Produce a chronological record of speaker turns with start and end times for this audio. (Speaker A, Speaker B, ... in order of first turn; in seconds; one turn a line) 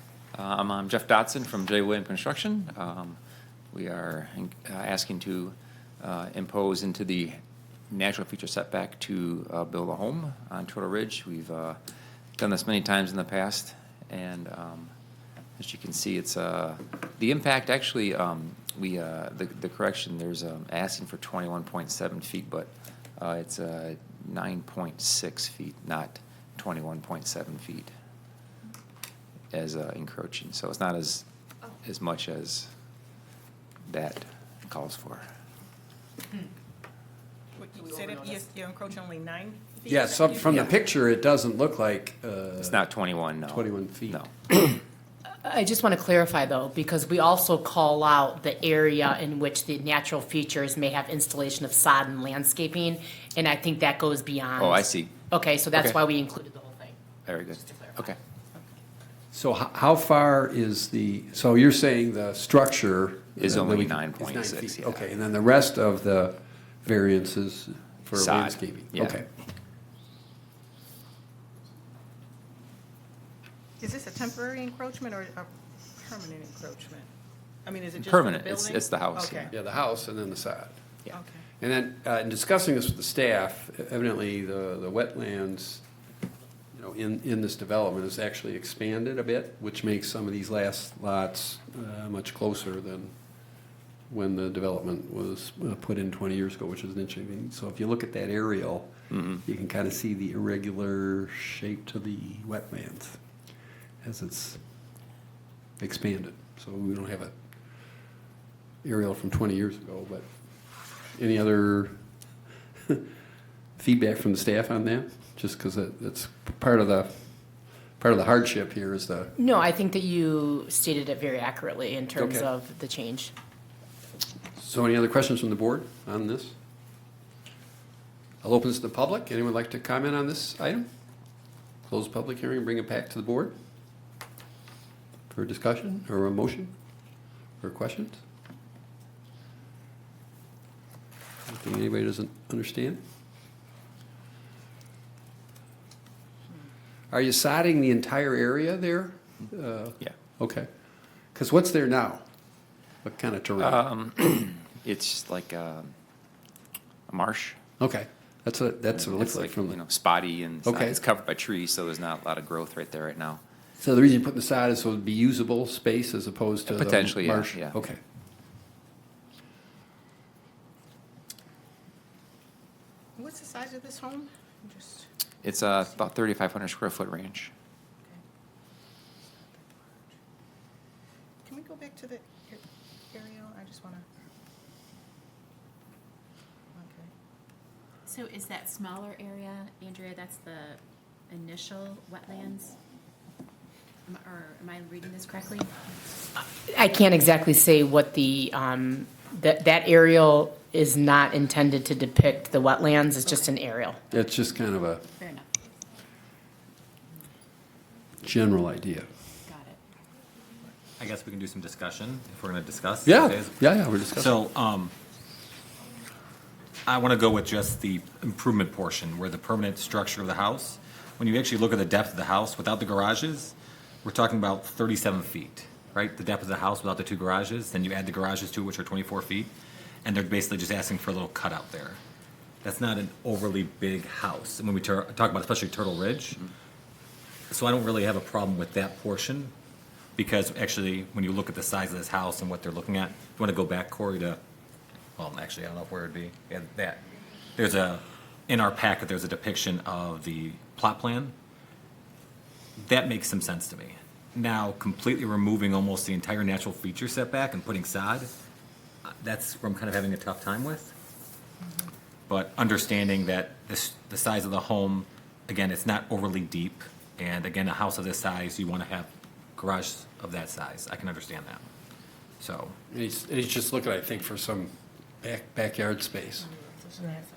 Speaker A: 0.3-3.2
Speaker A: 3.7-7.3
Speaker A: 7.9-11.8
Speaker A: 12.4-14.9
Speaker A: 15.6-27.9
Speaker A: 29.5-31.2
Speaker A: 31.8-32.7
Speaker A: 33.9-35.2
Speaker B: 37.5-40.7
Speaker C: 39.9-42.8
Speaker A: 42.6-44.3
Speaker C: 43.4-44.2
Speaker D: 45.4-57.0
Speaker A: 54.6-55.1
Speaker A: 57.2-58.2
Speaker D: 57.7-58.0
Speaker C: 59.3-69.3
Speaker A: 63.4-65.1
Speaker A: 68.1-69.2
Speaker B: 73.8-77.1
Speaker B: 77.6-79.5
Speaker A: 78.0-79.5
Speaker C: 79.5-80.7
Speaker B: 81.1-81.4
Speaker C: 81.6-85.8
Speaker C: 86.7-93.1
Speaker C: 94.1-103.2
Speaker C: 104.0-104.6
Speaker C: 105.8-107.3
Speaker C: 108.8-110.3
Speaker C: 111.1-111.9
Speaker C: 113.8-119.3
Speaker D: 119.4-123.3
Speaker C: 122.2-122.5
Speaker C: 124.5-126.5
Speaker C: 128.4-130.9
Speaker C: 131.8-133.5
Speaker C: 135.3-136.7
Speaker C: 137.6-138.2
Speaker C: 141.5-143.0
Speaker C: 147.1-150.7
Speaker C: 151.3-152.2
Speaker C: 153.0-153.9
Speaker A: 153.6-155.9
Speaker A: 157.1-157.6
Speaker C: 157.8-159.8
Speaker A: 159.0-163.4
Speaker C: 160.6-161.0
Speaker C: 163.8-168.0
Speaker A: 166.7-167.8
Speaker B: 173.2-175.1
Speaker A: 175.4-177.5
Speaker B: 179.3-180.1
Speaker B: 181.4-184.0
Speaker B: 186.7-187.1
Speaker E: 188.1-192.8
Speaker E: 194.1-195.8
Speaker D: 196.6-204.0
Speaker C: 204.1-205.1
Speaker E: 205.2-205.5
Speaker C: 208.2-209.1
Speaker E: 209.5-209.8
Speaker F: 211.0-213.6
Speaker C: 213.0-214.3
Speaker F: 214.1-214.9
Speaker F: 216.8-229.5
Speaker F: 230.0-232.0
Speaker F: 232.6-236.4
Speaker F: 237.5-239.5
Speaker F: 240.2-244.4
Speaker F: 245.2-247.0
Speaker F: 247.6-251.3
Speaker F: 252.8-258.3
Speaker F: 259.1-260.9
Speaker F: 262.3-271.6
Speaker F: 272.4-272.8
Speaker C: 272.9-276.5
Speaker B: 276.9-277.2